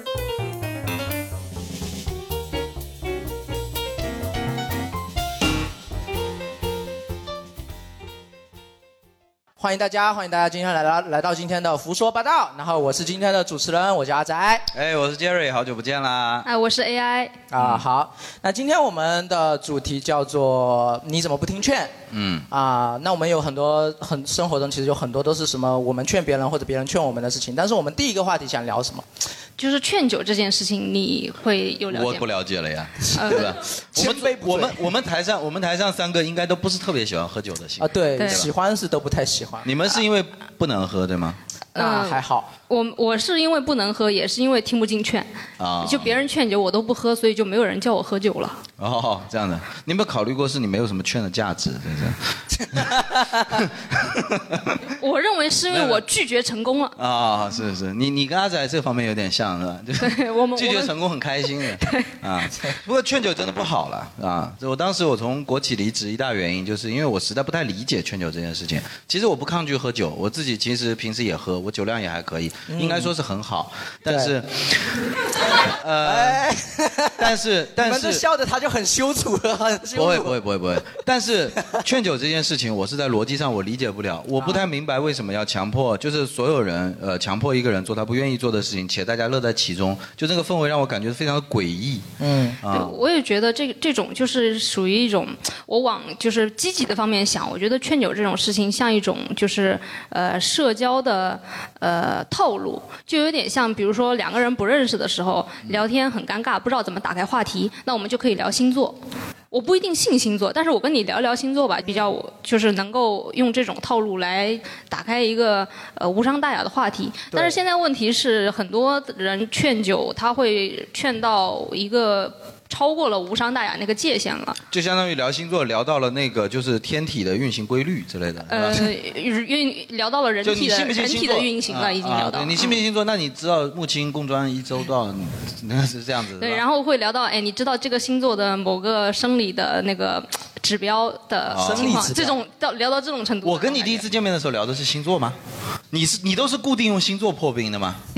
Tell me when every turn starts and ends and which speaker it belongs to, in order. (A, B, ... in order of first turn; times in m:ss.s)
0:09.6-0:14.7 A
0:14.7-0:16.5 B
0:16.4-0:17.4 C
0:17.5-0:22.0 A
0:22.1-0:22.5 B
0:22.5-0:29.1 A
0:29.6-0:32.3 C
0:31.9-0:38.5 B
0:33.1-0:33.5 C
0:33.2-0:34.8 A
0:37.8-0:39.7 A
0:38.2-0:38.4 C
0:39.6-0:41.4 B
0:41.8-0:45.3 C
0:41.8-0:42.5 A
0:45.6-0:46.2 B
0:45.8-0:48.6 C
0:48.8-0:54.8 B
0:53.0-0:53.2 A
0:55.0-0:57.0 C
0:55.7-0:56.0 B
0:57.0-1:15.0 B
1:00.0-1:00.9 C
1:01.8-1:02.1 C
1:12.7-1:13.1 A
1:14.1-1:14.3 A
1:15.8-1:16.4 B
1:16.0-1:20.4 A
1:17.2-1:18.2 B
1:20.0-1:32.0 B
1:24.4-1:24.6 A
1:32.2-1:32.6 A
1:32.6-1:33.0 B
1:32.7-1:49.0 C
1:49.5-2:04.6 C
1:57.3-1:57.6 A
2:04.7-2:08.9 B
2:08.5-2:12.8 C
2:10.4-2:16.6 B
2:16.4-2:24.1 C
2:21.5-2:22.1 B
2:21.6-2:22.4 A
2:23.4-2:25.4 B
2:25.9-2:28.0 B